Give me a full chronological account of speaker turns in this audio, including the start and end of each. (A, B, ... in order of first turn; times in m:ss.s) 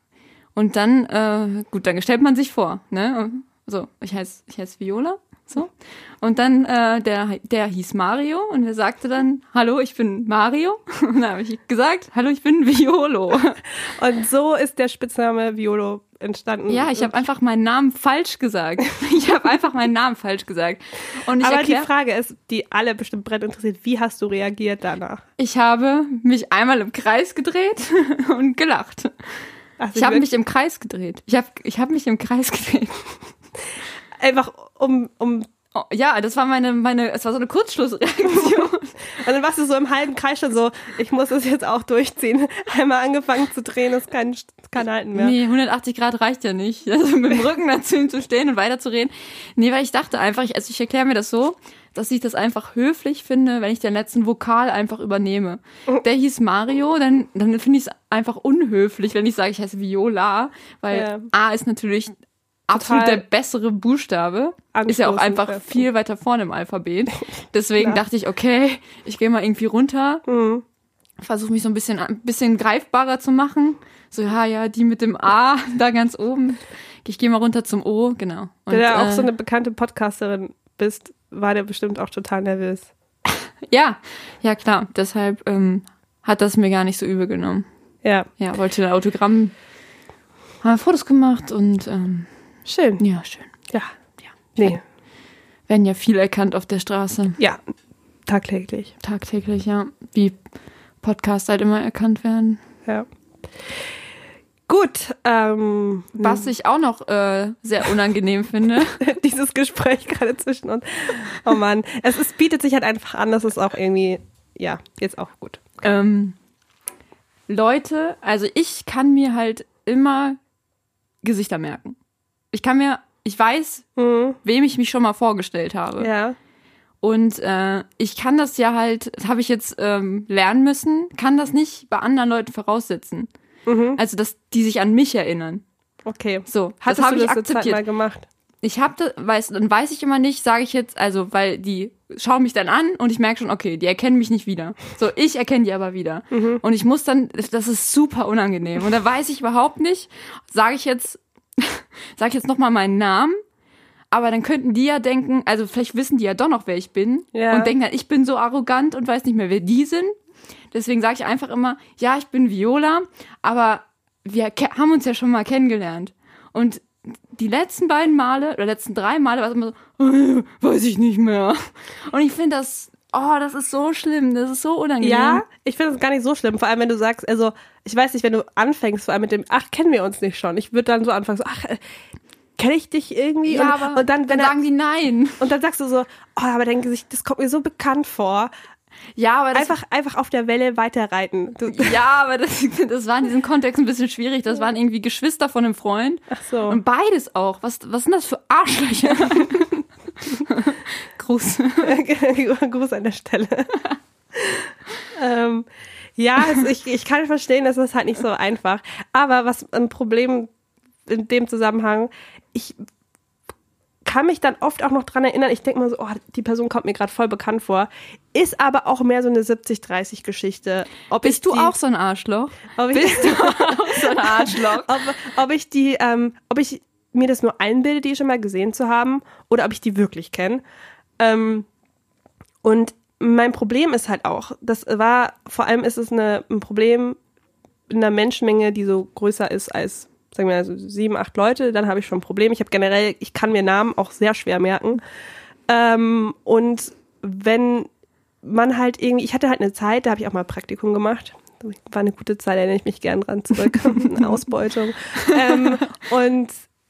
0:00.5-0:13.6 A
0:13.9-0:17.2 B
0:16.7-0:21.9 A
0:21.4-0:25.2 B
0:25.4-0:29.1 A
0:29.8-0:30.3 B
0:29.9-0:33.0 A
0:34.2-0:35.5 B
0:35.7-0:38.9 A
0:38.3-0:45.4 B
0:45.1-1:02.2 A
1:00.9-1:01.3 B
1:02.7-1:10.2 A
1:02.7-1:03.2 B
1:04.7-1:05.8 B
1:10.3-1:10.6 B
1:11.2-1:19.3 A
1:18.7-1:22.9 B
1:23.7-1:27.6 A
1:28.4-1:29.5 A
1:30.6-1:32.3 A
1:32.6-1:33.0 B
1:33.0-1:33.5 A
1:35.7-1:37.4 A
1:38.3-1:38.9 B
1:39.0-1:40.4 A
1:41.0-1:42.6 A
1:44.7-1:46.5 B
1:46.2-1:49.0 A
1:49.0-1:55.8 B
1:55.8-1:56.4 A
1:57.5-2:00.4 A
2:01.2-2:02.0 A
2:02.5-2:03.8 A
2:04.0-2:04.4 B
2:04.4-2:06.1 A
2:06.0-2:06.4 B
2:07.0-2:13.3 A
2:13.6-2:14.0 B
2:14.0-2:15.6 A
2:16.0-2:18.3 B
2:16.5-2:17.8 A
2:18.6-2:33.4 A
2:26.3-2:26.6 B
2:34.1-2:40.1 A
2:37.3-2:37.7 B
2:40.7-2:55.4 A
2:55.0-3:01.8 B
3:02.6-3:04.6 B
3:03.5-3:05.5 A
3:05.4-3:08.5 B
3:09.2-3:09.7 A
3:09.5-3:12.0 B
3:11.7-3:22.0 A
3:16.4-3:16.8 B
3:21.8-3:23.7 B
3:24.3-3:30.5 B
3:31.0-3:32.8 B
3:34.0-3:41.7 B
3:41.2-3:45.0 A
3:42.8-3:50.6 B
3:51.2-3:51.7 B
3:52.6-3:57.2 B
3:57.9-4:05.0 B
4:05.7-4:07.9 B
4:08.4-4:16.5 B
4:15.2-4:15.6 A